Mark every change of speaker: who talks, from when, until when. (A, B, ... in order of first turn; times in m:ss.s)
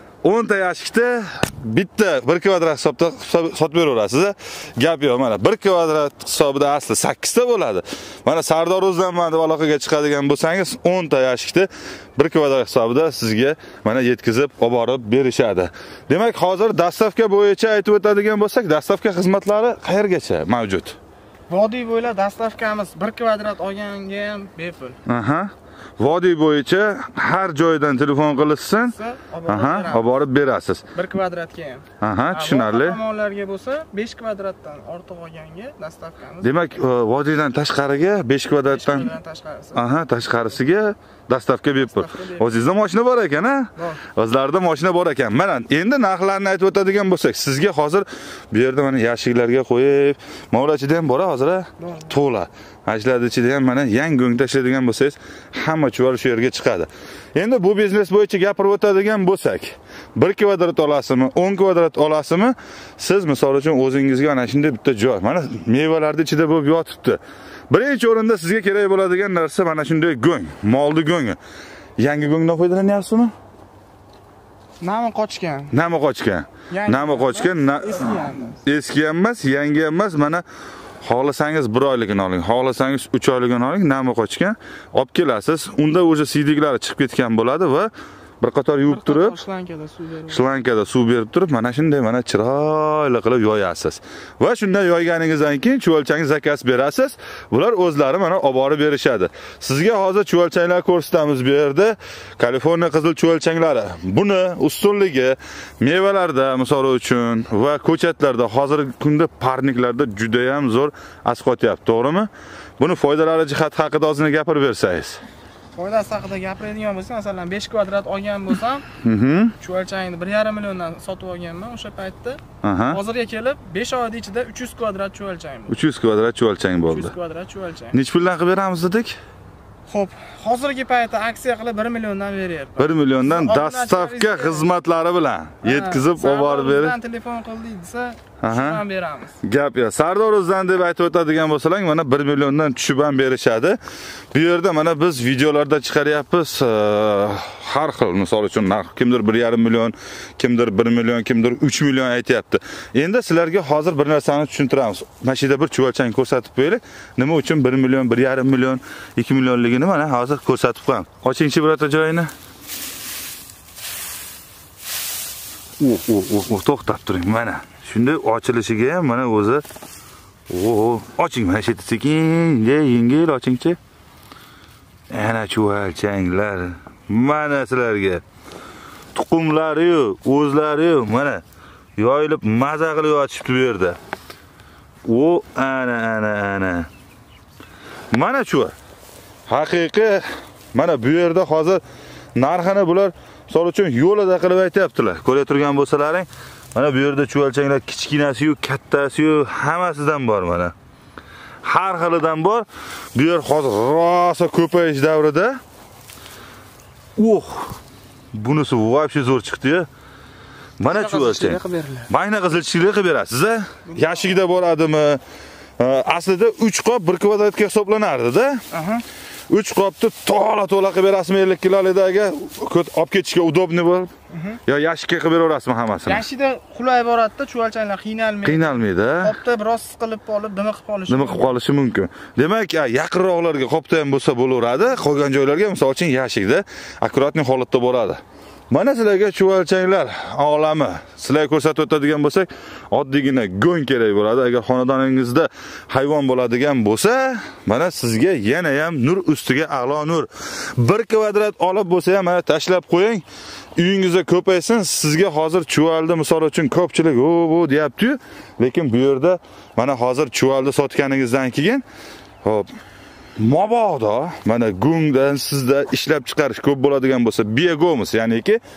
0:00.2-0:21.0 A
0:21.5-0:25.0 B
0:25.0-0:28.9 A
0:28.8-0:30.1 B
0:29.5-0:30.8 A
0:30.9-0:36.5 B
0:32.0-0:33.0 A
0:36.4-0:39.1 A
0:38.6-0:39.8 B
0:39.7-1:11.4 A
0:41.8-0:42.6 B
0:43.8-0:44.0 B
0:51.8-0:52.1 B
1:12.0-1:13.3 A
1:14.8-1:15.7 B
1:15.7-1:20.4 A
1:16.7-1:18.6 B
1:21.0-1:29.4 A
1:28.8-1:30.5 B
1:30.3-1:55.2 A
1:55.8-1:58.8 B
1:59.0-1:59.5 A
1:59.6-2:05.8 B
2:02.6-2:03.0 A
2:05.7-2:07.1 A
2:06.9-2:08.0 B
2:07.9-2:09.2 A
2:09.9-2:14.7 B
2:12.8-2:16.9 A
2:15.6-2:19.4 B
2:18.4-2:18.8 A
2:19.4-2:23.8 A
2:24.3-2:42.3 A
2:45.8-2:49.6 A
2:50.5-2:53.8 A
2:55.1-2:58.2 A
2:59.1-3:01.4 A
3:02.0-3:04.0 A
3:05.0-3:06.9 A
3:08.1-3:08.7 A
3:09.5-3:11.8 A
3:12.4-3:20.7 A
3:21.6-3:25.6 A
3:27.2-3:27.8 A
3:28.3-3:29.9 A
3:30.8-3:35.2 A
3:30.9-3:32.1 B
3:33.9-3:34.2 B
3:35.8-3:38.6 A
3:38.7-3:39.0 B
3:39.5-3:44.1 A
3:44.3-3:44.6 B
3:44.6-3:46.2 A
3:46.0-3:51.5 B
3:48.4-3:49.3 A
3:51.1-3:58.2 A
3:58.7-4:13.2 A
4:13.8-4:21.8 A
4:22.4-4:22.7 A
4:23.4-4:28.6 A